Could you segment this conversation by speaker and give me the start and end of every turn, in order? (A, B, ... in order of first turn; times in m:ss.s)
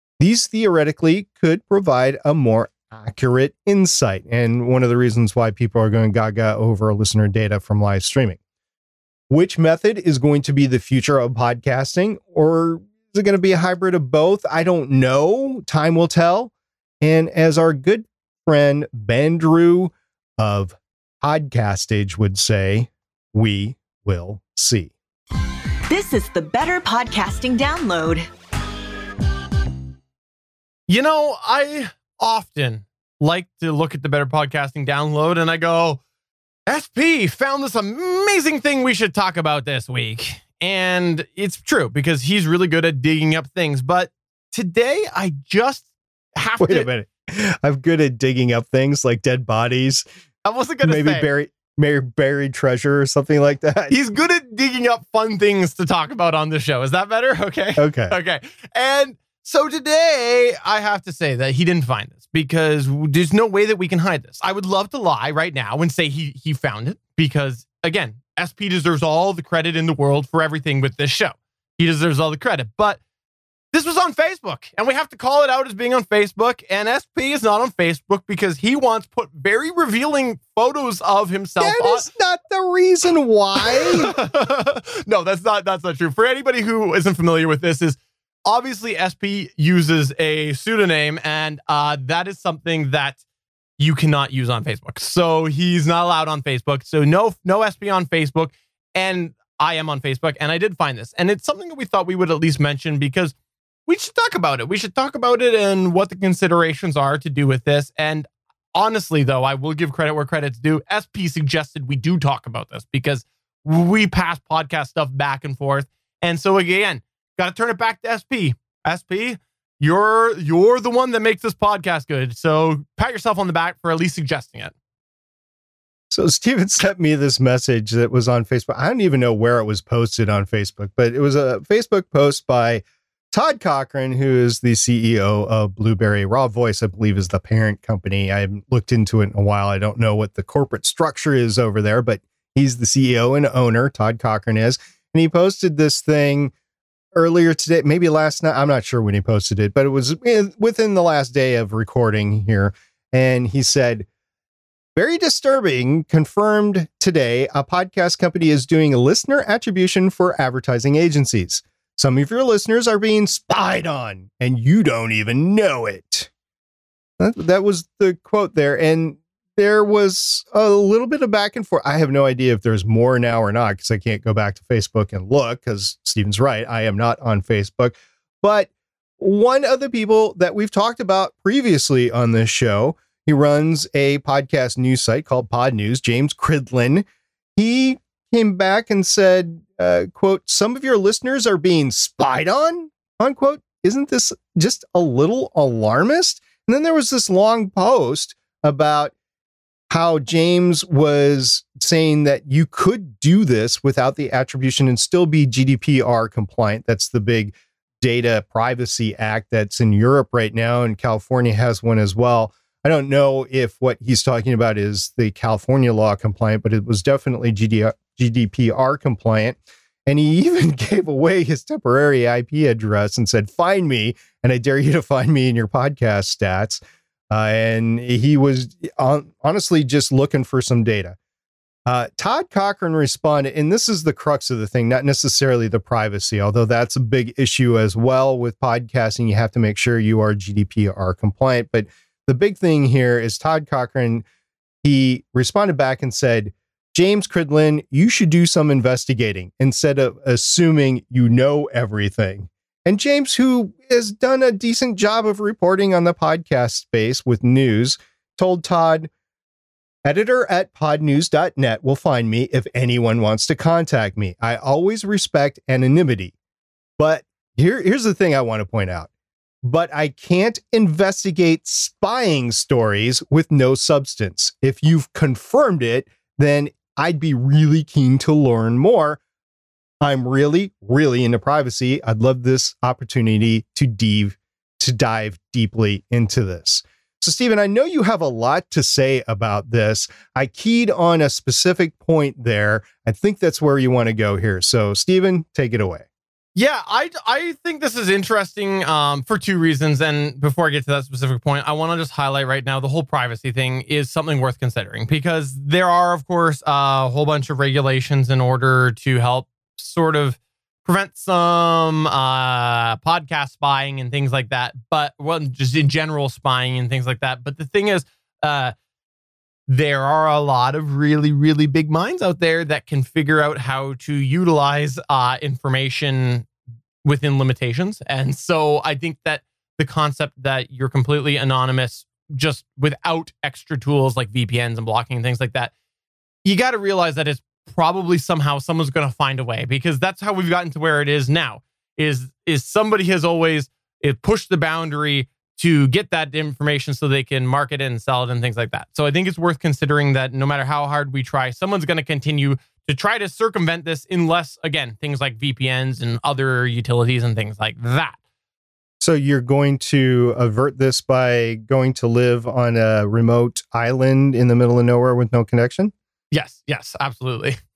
0:00.2-0:08.4 A
0:09.3-0:24.9 A
0:25.9-0:28.3 B
0:30.9-0:36.0 C
0:36.7-0:45.8 C
0:46.4-0:46.9 C
0:46.6-0:50.0 A
0:50.4-0:51.3 C
0:50.8-0:53.9 A
0:53.9-1:13.0 C
0:57.8-0:58.1 A
1:13.7-1:22.0 C
1:21.6-1:24.1 A
1:23.7-1:33.2 C
1:33.8-1:43.3 C
1:43.8-2:04.7 C
2:06.1-2:26.5 A
2:27.1-2:34.1 A
2:35.0-2:46.3 A
2:47.2-3:07.0 A
3:07.6-3:19.1 A
3:19.9-3:46.8 A
3:47.3-3:51.2 A
3:51.9-4:04.2 A
4:04.8-4:19.1 A
4:20.0-4:26.3 A
4:27.0-4:29.1 A
4:29.6-4:39.2 A
4:40.0-4:56.0 A
4:56.5-5:18.7 C
5:19.7-5:26.5 C
5:27.0-5:35.7 C
5:36.4-5:58.2 C
5:59.0-6:05.9 A
6:06.3-6:07.6 C